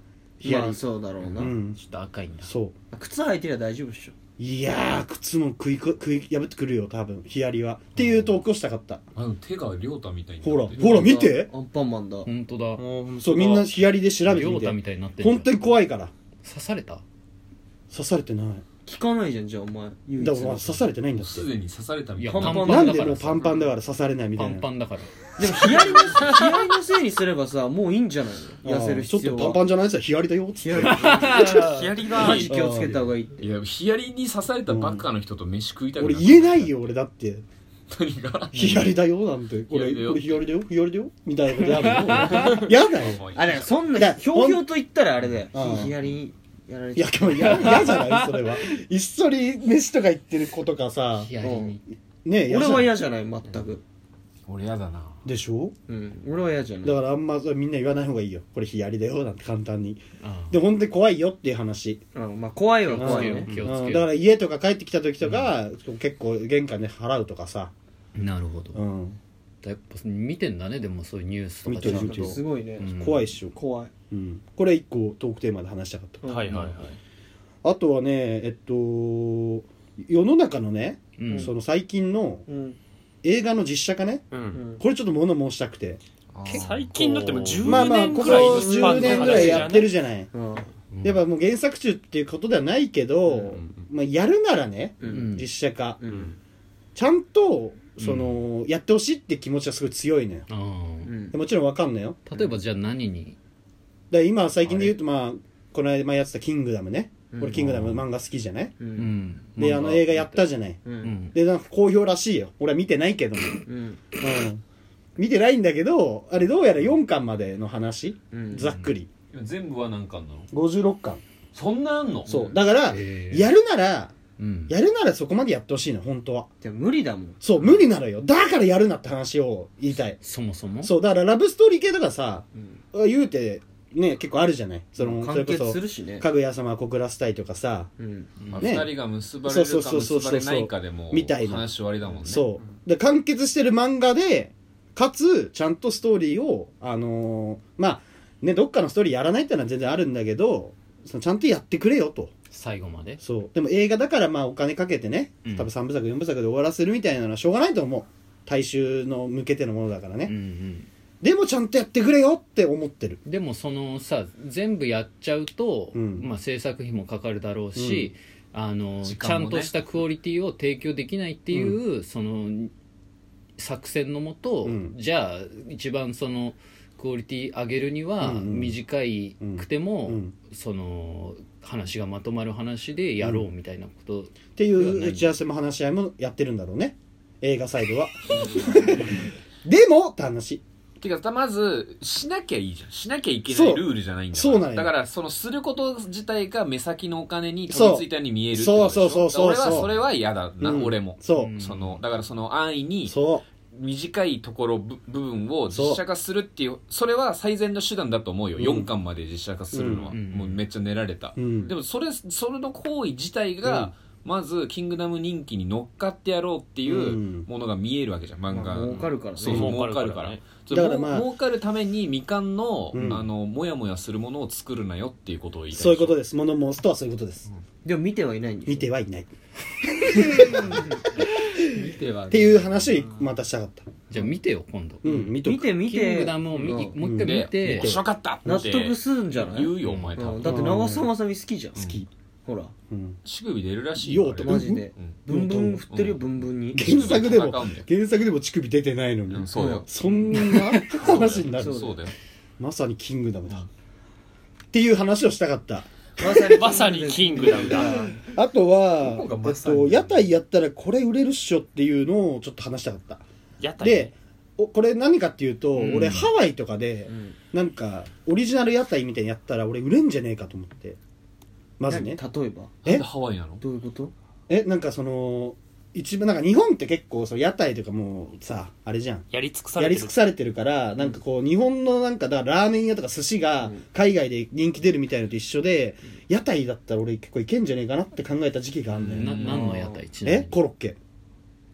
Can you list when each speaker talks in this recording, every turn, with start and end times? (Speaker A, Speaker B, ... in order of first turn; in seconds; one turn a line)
Speaker A: 0.4-0.8
Speaker B: 0.4-1.5
Speaker A: 1.4-1.8
Speaker C: 1.7-2.5
Speaker A: 2.4-2.7
Speaker B: 2.9-4.1
Speaker A: 4.4-9.0
Speaker C: 8.0-8.3
Speaker D: 9.1-11.0
Speaker A: 10.4-11.5
Speaker B: 10.8-12.3
Speaker C: 12.2-12.8
Speaker A: 12.8-16.1
Speaker C: 14.2-15.6
Speaker C: 16.4-17.0
Speaker A: 17.9-18.6
Speaker B: 18.9-20.8
Speaker A: 20.2-21.5
Speaker D: 21.2-22.6
Speaker C: 22.2-23.5
Speaker B: 22.3-22.9
Speaker A: 22.6-24.6
Speaker C: 24.4-25.1
Speaker B: 25.4-29.6
Speaker E: 26.2-26.4
Speaker A: 28.6-31.3
Speaker B: 30.6-33.4
Speaker C: 30.9-31.7
Speaker E: 31.4-32.5
Speaker A: 32.5-33.1
Speaker D: 33.4-36.7
Speaker A: 34.7-35.0
Speaker A: 36.0-37.4
Speaker D: 37.9-39.0
Speaker A: 38.5-43.2
Speaker D: 39.7-40.4
Speaker C: 41.9-42.5
Speaker D: 42.9-43.6
Speaker B: 43.3-48.0
Speaker A: 43.9-44.6
Speaker A: 45.5-45.9
Speaker A: 47.0-51.3
Speaker C: 51.2-51.8
Speaker B: 51.4-51.7
Speaker A: 52.2-52.9
Speaker B: 52.5-53.8
Speaker D: 54.5-55.2
Speaker A: 55.2-55.7
Speaker B: 55.9-57.0
Speaker A: 56.8-62.0
Speaker C: 60.2-60.6
Speaker B: 62.1-63.5
Speaker C: 62.9-64.1
Speaker A: 63.0-67.7
Speaker C: 65.2-65.5
Speaker C: 68.2-68.8
Speaker A: 68.7-69.2
Speaker C: 69.6-73.3
Speaker A: 71.7-73.5
Speaker B: 71.8-72.9
Speaker B: 73.5-73.9
Speaker A: 74.1-76.3
Speaker B: 76.2-76.5
Speaker E: 76.2-76.8
Speaker C: 76.5-77.0
Speaker A: 77.6-82.4
Speaker C: 81.2-81.5
Speaker B: 82.5-82.8
Speaker A: 83.2-86.0
Speaker E: 84.3-84.6
Speaker B: 84.5-84.8
Speaker D: 86.3-87.9
Speaker E: 86.5-89.9
Speaker A: 87.6-90.3
Speaker B: 88.1-89.6
Speaker B: 90.3-90.7
Speaker C: 90.9-91.2
Speaker A: 91.0-96.0
Speaker B: 95.0-95.3
Speaker C: 95.1-95.5
Speaker B: 96.0-96.3
Speaker A: 96.9-100.5
Speaker C: 100.5-101.1
Speaker B: 101.0-101.3
Speaker A: 101.3-102.2
Speaker C: 102.3-103.3
Speaker A: 104.1-108.7
Speaker B: 107.3-107.7
Speaker C: 107.6-108.0
Speaker B: 108.8-109.1
Speaker C: 109.0-110.4
Speaker A: 109.6-114.6
Speaker B: 110.8-111.1
Speaker C: 111.0-111.3
Speaker B: 113.7-114.1
Speaker A: 115.2-119.1
Speaker B: 118.3-118.7
Speaker D: 119.3-120.5
Speaker A: 120.5-121.2
Speaker D: 121.5-122.3
Speaker B: 122.2-122.6
Speaker A: 122.3-124.1
Speaker C: 122.9-123.5
Speaker C: 124.4-124.7
Speaker A: 124.7-126.5
Speaker B: 126.6-127.4
Speaker A: 127.4-130.2
Speaker C: 130.2-130.9
Speaker A: 130.8-137.9
Speaker B: 135.0-136.2
Speaker B: 138.0-138.3
Speaker C: 138.4-138.7
Speaker D: 138.5-142.5
Speaker A: 138.6-152.3
Speaker C: 152.5-153.2
Speaker A: 153.2-160.3
Speaker C: 155.4-155.7
Speaker C: 160.2-160.9
Speaker A: 161.2-163.2
Speaker C: 163.2-172.7
Speaker A: 165.9-166.3
Speaker A: 167.8-168.1
Speaker D: 169.0-169.7
Speaker A: 171.5-171.8
Speaker C: 173.6-185.3
Speaker A: 174.6-174.9
Speaker A: 178.2-178.8
Speaker A: 179.4-180.3
Speaker A: 183.2-183.5
Speaker A: 184.6-190.6
Speaker B: 188.3-189.1
Speaker D: 191.0-203.1
Speaker A: 193.5-194.9
Speaker A: 197.7-199.9
Speaker A: 200.6-201.6
Speaker C: 201.3-202.0
Speaker A: 203.0-203.4
Speaker D: 203.7-226.2
Speaker A: 205.7-206.0
Speaker A: 208.6-208.9
Speaker A: 209.7-210.1
Speaker C: 210.1-210.6
Speaker A: 211.3-211.7
Speaker A: 213.6-213.9
Speaker A: 216.8-217.5
Speaker B: 218.5-219.7
Speaker E: 219.4-220.4
Speaker A: 220.7-221.3
Speaker A: 222.9-223.3
Speaker A: 225.7-227.5
Speaker B: 227.8-228.9
Speaker A: 228.7-229.3
Speaker A: 230.0-234.3
Speaker D: 231.8-232.7
Speaker C: 232.3-232.6
Speaker C: 234.1-235.0
Speaker A: 235.0-235.7
Speaker B: 235.0-237.0
Speaker C: 235.8-238.0
Speaker D: 236.5-240.7
Speaker A: 237.0-238.0
Speaker B: 238.4-241.8
Speaker C: 239.8-240.3
Speaker A: 240.4-241.1
Speaker D: 241.7-242.0
Speaker A: 241.8-242.1
Speaker B: 242.4-242.7
Speaker A: 242.9-243.2
Speaker D: 243.2-245.3
Speaker A: 244.0-245.8
Speaker B: 244.4-246.9
Speaker D: 245.8-247.9
Speaker A: 246.7-251.8
Speaker D: 249.3-249.9
Speaker B: 249.5-249.8
Speaker D: 250.9-252.1
Speaker B: 251.6-252.0
Speaker A: 252.6-253.7
Speaker A: 254.7-256.6
Speaker B: 256.2-258.2
Speaker E: 256.5-258.1
Speaker A: 257.8-263.2
Speaker D: 259.0-260.3
Speaker E: 263.6-264.1
Speaker A: 263.8-271.0
Speaker C: 265.7-266.3
Speaker B: 267.1-267.4
Speaker A: 271.8-272.2
Speaker B: 271.9-272.8
Speaker D: 272.8-273.6
Speaker B: 273.6-274.1
Speaker A: 274.5-279.2
Speaker E: 279.3-280.1
Speaker A: 279.8-289.6
Speaker D: 289.0-289.7
Speaker C: 289.1-290.5
Speaker B: 289.4-290.0
Speaker A: 290.2-291.0